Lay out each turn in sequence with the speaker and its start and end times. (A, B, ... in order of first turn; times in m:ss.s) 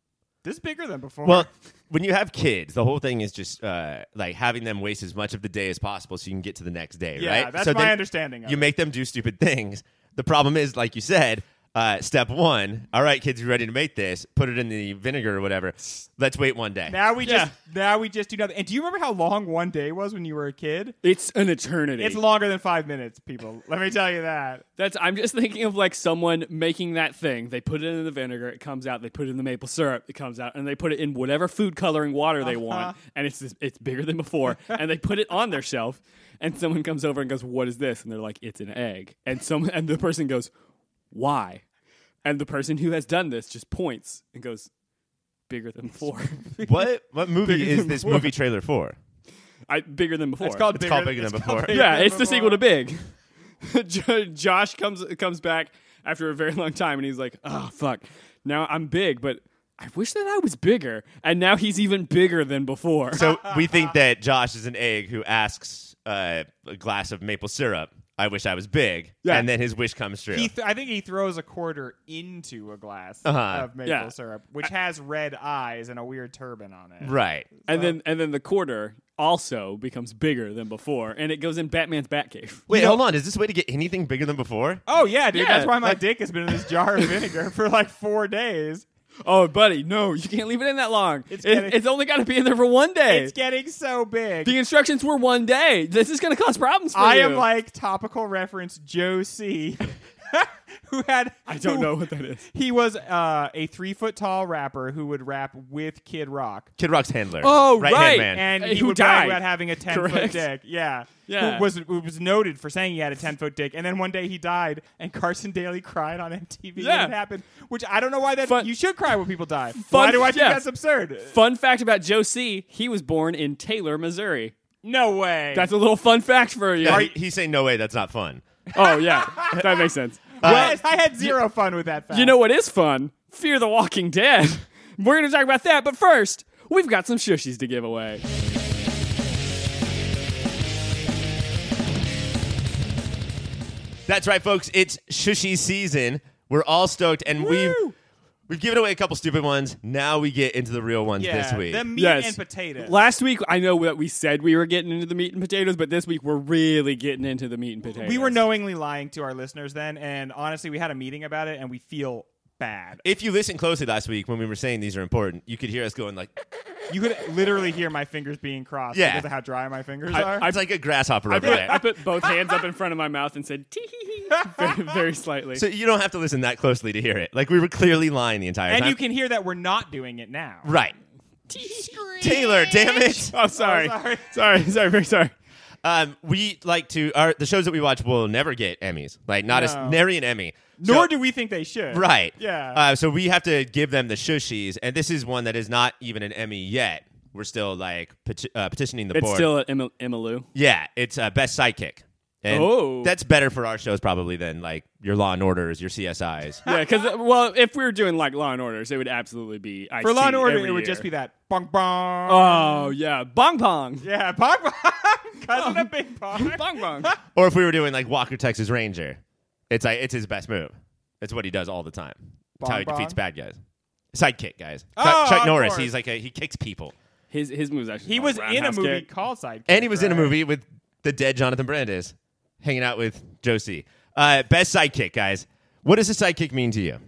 0:00.4-0:01.5 A
0:01.2-0:17.0 B
0:07.1-0:08.7 A
0:16.9-0:21.0 A
0:17.2-0:17.5 C
0:21.0-0:22.2 C
0:22.0-0:24.6 A
0:24.8-0:40.5 C
0:32.4-0:32.9 A
0:41.1-0:41.6 C
0:42.2-0:44.7 C
0:45.5-0:46.6 C
0:46.6-0:49.0 B
0:47.4-0:48.3 C
0:49.7-0:50.7 C
0:50.4-0:52.6 A
0:50.7-0:51.8 B
0:51.7-0:53.1 C
0:53.6-1:03.2 C
1:03.1-1:03.9 A
1:03.1-1:10.5 B
1:10.3-1:18.0 A
1:13.2-1:13.7 B
1:13.8-1:14.1 C
1:17.0-1:17.5 B
1:17.7-1:22.9 C
1:22.7-1:24.8 B
1:24.8-1:28.8 A
1:25.3-1:25.9 C
1:29.2-1:33.3 C
1:31.3-1:31.8 A
1:33.1-1:34.5 A
1:34.4-1:37.5 C
1:36.9-1:41.9 A
1:41.5-1:42.4 C
1:42.5-1:46.7 A
1:46.8-1:48.4 B
1:47.4-1:50.5 C
1:48.2-2:01.4 A
1:51.3-1:51.7 C
1:56.8-1:57.1 C
1:58.4-1:58.7 C
1:59.8-2:00.7 C
2:01.3-2:04.5 C
2:04.8-2:05.7 A
2:05.5-2:07.1 C
2:06.8-2:08.4 B
2:06.8-2:07.1 A
2:08.7-2:09.8 A
2:08.7-2:11.4 C
2:10.4-2:12.4 A
2:10.4-2:10.8 B
2:12.1-2:18.2 C
2:24.1-2:27.8 B
2:27.4-2:27.9 C
2:28.5-2:31.8 B
2:31.2-2:32.9 A
2:32.0-2:38.4 C
2:37.9-2:43.0 A
2:43.0-2:46.3 B
2:46.9-2:50.5 A
2:48.9-2:49.3 B
2:50.1-2:50.6 C
2:50.2-2:51.8 B
2:51.3-2:52.2 A
2:51.4-2:55.6 C
2:54.3-2:54.8 A
2:55.6-2:59.0 B
2:58.7-3:00.7 A
3:00.6-3:00.9 B
3:01.5-3:05.3 C
3:02.2-3:03.3 B
3:02.4-3:04.6 A
3:05.8-3:11.1 B
3:09.5-3:10.0 A
3:10.8-3:12.8 A
3:11.9-3:19.5 B
3:19.1-3:20.5 C
3:20.5-3:26.6 B
3:22.5-3:23.1 C
3:26.6-3:31.1 C
3:26.6-3:27.0 A
3:30.0-3:32.9 A
3:32.3-3:34.0 C
3:34.0-3:37.2 A
3:35.5-3:37.1 C
3:37.3-3:43.6 B
3:42.6-3:43.2 A
3:44.1-3:46.9 B
3:45.0-3:45.9 A
3:47.3-3:49.1 C
3:48.0-3:50.4 A
3:49.7-3:57.0 B